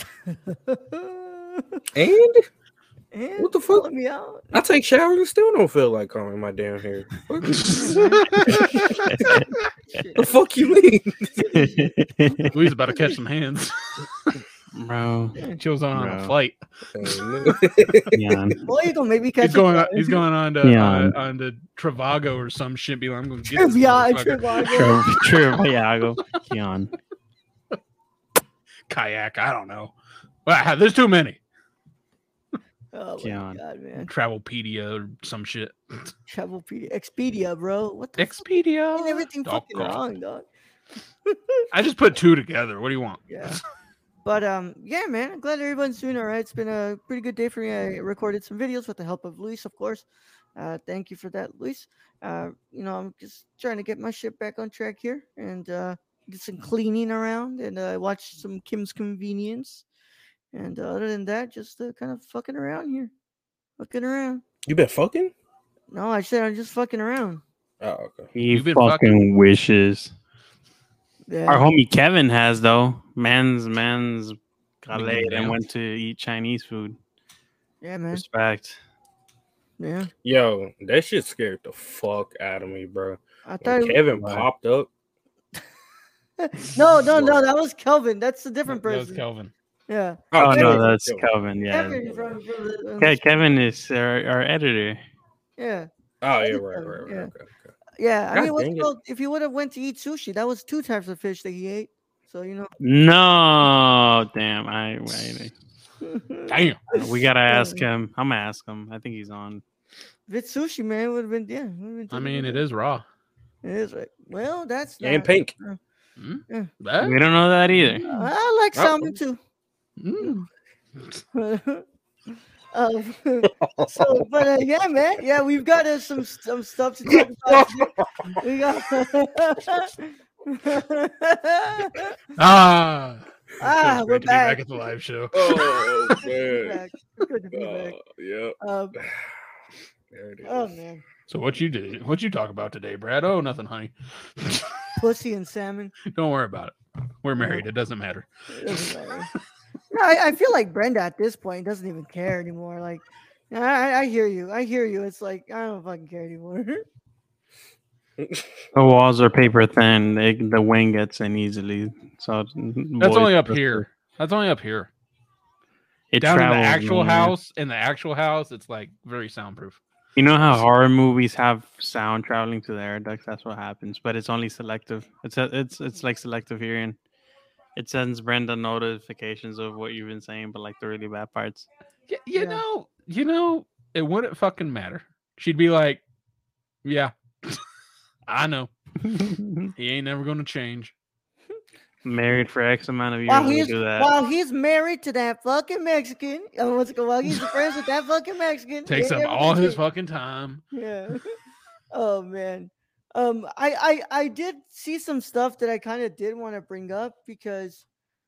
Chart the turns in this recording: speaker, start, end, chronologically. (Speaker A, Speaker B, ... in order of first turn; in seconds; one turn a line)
Speaker A: 0.3-1.8
Speaker B: 1.9-2.5
Speaker A: 3.1-4.5
Speaker B: 3.4-3.9
Speaker B: 4.5-9.4
Speaker A: 7.7-8.4
Speaker C: 7.7-8.9
Speaker D: 8.4-9.5
Speaker A: 9.9-10.3
Speaker B: 10.2-11.6
Speaker D: 11.5-12.5
Speaker C: 12.5-14.4
Speaker D: 14.7-15.4
Speaker C: 15.6-16.6
Speaker D: 15.9-16.3
Speaker B: 16.9-18.1
Speaker D: 18.1-18.6
Speaker A: 18.7-20.2
Speaker C: 19.4-25.0
Speaker D: 20.6-21.1
Speaker A: 23.5-25.0
Speaker D: 24.7-26.9
Speaker C: 28.9-29.9
Speaker C: 30.5-31.4
Speaker A: 32.9-34.1
Speaker D: 33.2-33.6
Speaker C: 34.1-36.1
Speaker A: 36.3-40.5
Speaker C: 38.2-40.0
Speaker A: 41.3-41.6
Speaker C: 41.7-43.6
Speaker A: 43.3-43.6
Speaker A: 44.2-50.0
Speaker A: 50.6-59.8
Speaker A: 60.5-63.1
Speaker A: 63.8-64.4
Speaker B: 64.7-65.3
Speaker A: 65.9-67.4
Speaker B: 67.8-68.3
Speaker D: 68.3-70.1
Speaker C: 68.5-69.2
Speaker A: 71.3-71.7
Speaker D: 71.5-77.0
Speaker C: 74.9-75.6
Speaker A: 77.8-78.2
Speaker D: 78.1-78.8
Speaker A: 79.8-80.1
Speaker B: 80.2-84.9
Speaker A: 83.5-84.0
Speaker D: 84.2-84.5
Speaker A: 86.4-89.2
Speaker B: 87.0-87.5
Speaker C: 88.7-89.5
Speaker A: 89.9-90.9
Speaker B: 90.3-91.3
Speaker D: 90.4-92.0
Speaker A: 91.7-93.2
Speaker D: 93.0-95.0
Speaker A: 95.6-95.9
Speaker B: 96.2-97.7
Speaker A: 96.5-97.3
Speaker A: 98.0-102.7
Speaker B: 98.3-98.9
Speaker D: 102.8-105.5
Speaker A: 106.0-107.8
Speaker C: 106.5-106.8
Speaker D: 106.9-109.6
Speaker A: 110.3-112.6
Speaker C: 112.1-113.0
Speaker A: 113.6-115.8
Speaker B: 115.0-115.5
Speaker C: 116.2-117.2
Speaker D: 117.0-118.1
Speaker A: 118.1-119.4
Speaker B: 118.8-119.2
Speaker C: 120.0-120.5
Speaker A: 121.3-132.2
Speaker B: 123.5-124.3
Speaker B: 127.1-128.4
Speaker C: 132.4-135.6
Speaker A: 133.6-134.7
Speaker B: 135.3-136.8
Speaker A: 136.2-138.0
Speaker B: 137.5-139.4
Speaker A: 138.6-139.0
Speaker B: 140.1-140.7
Speaker A: 140.4-141.0
Speaker C: 141.3-144.7
Speaker A: 145.0-145.9
Speaker C: 146.1-148.9
Speaker A: 147.4-147.7
Speaker A: 148.5-149.3
Speaker A: 149.9-156.8
Speaker B: 158.2-158.6
Speaker D: 158.7-163.8
Speaker C: 163.0-164.9
Speaker D: 166.1-167.3
Speaker C: 166.2-169.8
Speaker D: 170.2-177.0
Speaker D: 177.8-181.7
Speaker C: 182.1-186.0
Speaker A: 182.3-182.6
Speaker C: 186.8-187.6
Speaker C: 188.3-188.7
Speaker D: 189.0-189.7
Speaker C: 189.8-190.9
Speaker D: 192.1-194.1
Speaker A: 193.3-199.8
Speaker C: 198.9-200.6
Speaker A: 200.7-201.3
Speaker A: 201.9-207.8